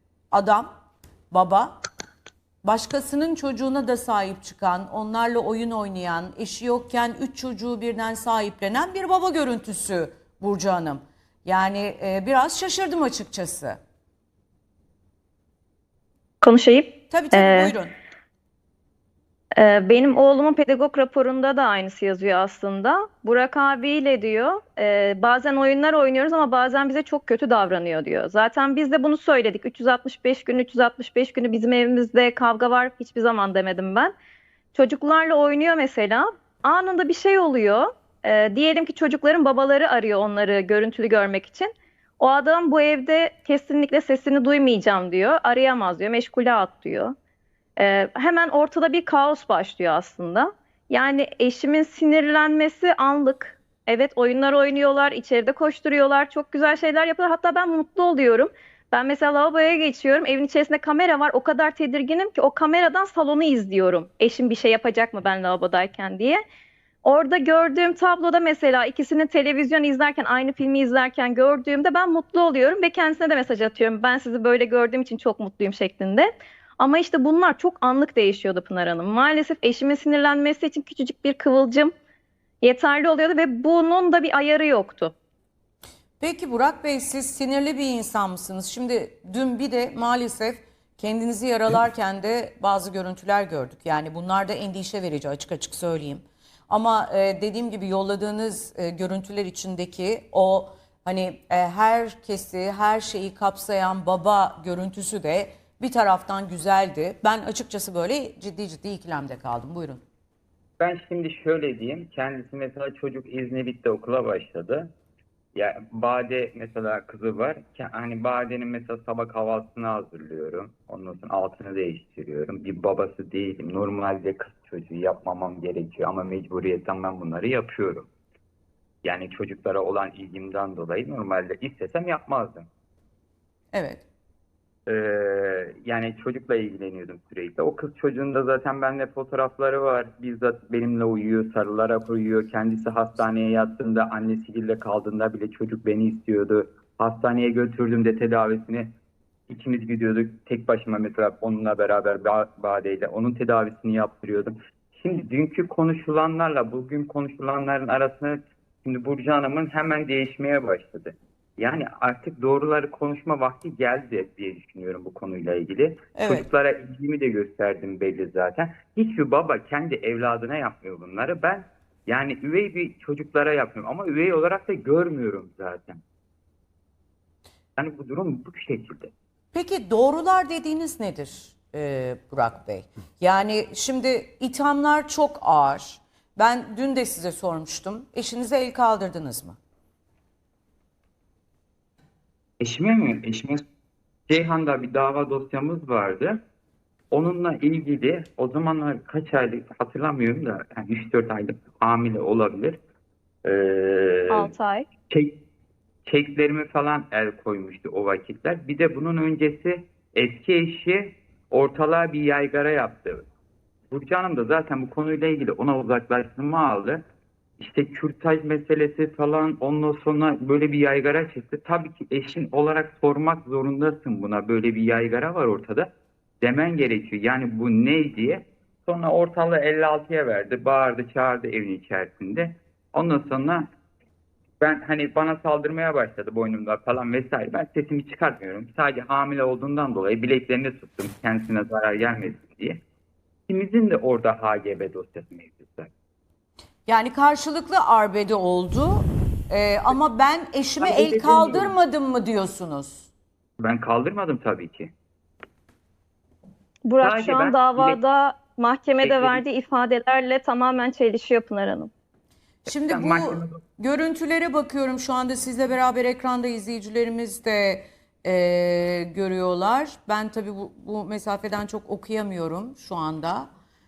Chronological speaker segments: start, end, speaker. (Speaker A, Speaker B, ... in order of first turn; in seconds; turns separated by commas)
Speaker A: 0.3-0.7, Speaker A: 1.3-1.8, Speaker A: 2.6-13.8, Speaker B: 16.4-17.7, Speaker A: 17.1-17.9, Speaker B: 19.6-34.1, Speaker B: 34.7-47.1, Speaker B: 47.8-66.4, Speaker B: 67.0-76.3, Speaker B: 76.8-81.9, Speaker B: 82.6-85.1, Speaker A: 86.2-110.0, Speaker C: 110.8-114.9, Speaker C: 115.5-128.1, Speaker C: 129.0-132.7, Speaker A: 133.7-134.0, Speaker C: 134.9-148.9, Speaker C: 149.5-176.0, Speaker A: 166.2-166.5, Speaker C: 177.8-179.1, Speaker A: 179.5-189.6, Speaker C: 192.6-193.6, Speaker C: 194.3-196.4, Speaker C: 197.1-202.8, Speaker C: 203.4-204.5, Speaker B: 204.3-204.9, Speaker C: 205.1-205.4, Speaker C: 206.1-213.2, Speaker C: 213.9-217.0, Speaker C: 217.6-225.9, Speaker C: 226.4-233.7, Speaker C: 234.6-242.8, Speaker C: 243.5-245.9, Speaker A: 246.9-253.1, Speaker C: 250.8-251.7, Speaker C: 253.6-254.9, Speaker B: 256.9-261.9, Speaker C: 257.0-258.0, Speaker C: 259.0-259.4, Speaker A: 262.6-273.5, Speaker C: 262.9-263.6